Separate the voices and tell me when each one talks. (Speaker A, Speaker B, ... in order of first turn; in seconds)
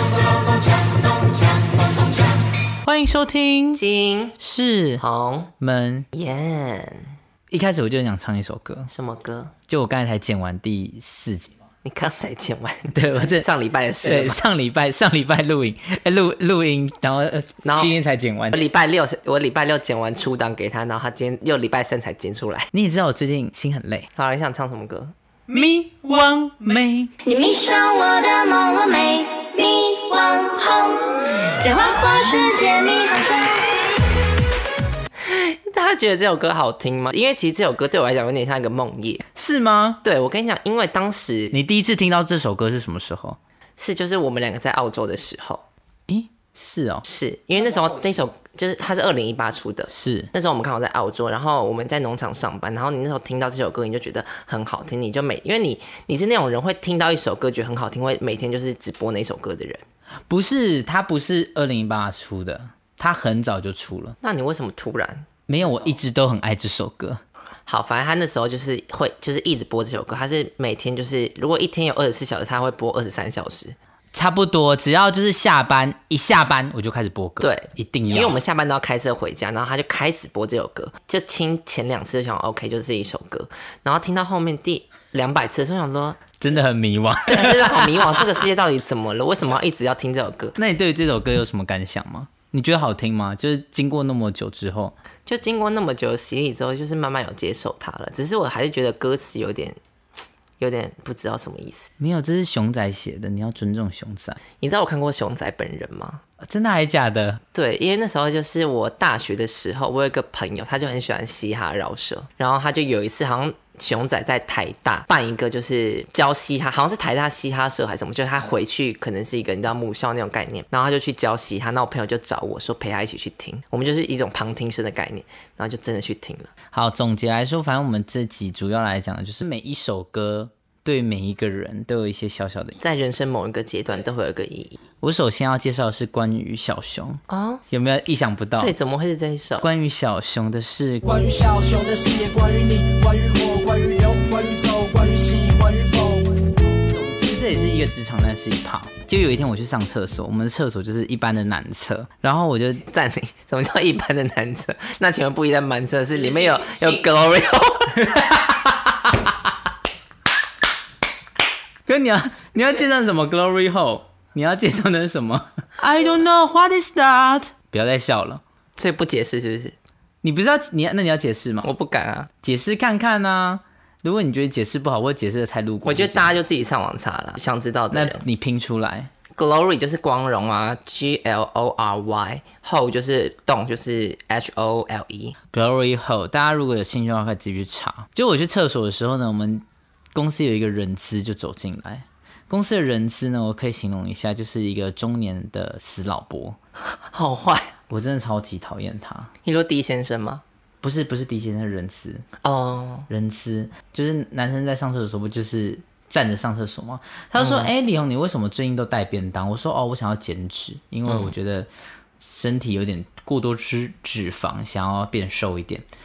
Speaker A: 2.8-3.8, 4.4-5.0, 5.6-6.1, 7.5-8.9, 9.7-11.6, 12.9-13.5, 14.0-18.6, 22.7-24.1, 25.5-27.1, 39.4-40.0, 41.5-43.4, 46.1-47.0, 49.9-50.3, 60.3-64.2, 65.5-67.2, 74.1-78.4, 86.4-88.3, 90.6-95.0, 102.0-104.4, 106.4-107.4, 126.7-132.8, 135.0-138.7, 139.6-141.0, 146.9-152.8, 156.2-157.0, 157.9-159.3, 161.9-168.4, 170.2-171.7, 172.4-176.4, 177.9-179.1, 185.5-196.6, 197.9-199.3, 200.8-202.2, 203.1-211.7, 212.2-215.8
Speaker B: 3.8-4.4, 5.0-5.5, 6.1-7.2, 8.9-9.5, 11.8-14.4, 17.6-17.9, 18.5-22.7, 24.1-25.1, 35.2-39.2, 40.0-41.6, 43.8-45.6, 47.0-59.8, 64.2-66.0, 67.7-73.8, 77.4-86.3, 87.3-90.6, 95.3-99.8, 100.6-101.9, 104.6-106.2, 107.5-126.5, 132.8-134.8, 137.3-137.7, 138.6-139.7, 152.8-158.0, 168.8-169.8, 171.6-172.3, 175.8-178.2, 179.3-185.4, 197.0-197.7, 199.4-200.4, 202.4-203.1, 207.4-207.7, 211.1-211.3
Speaker C: 27.2-33.8
Speaker D: 141.0-146.4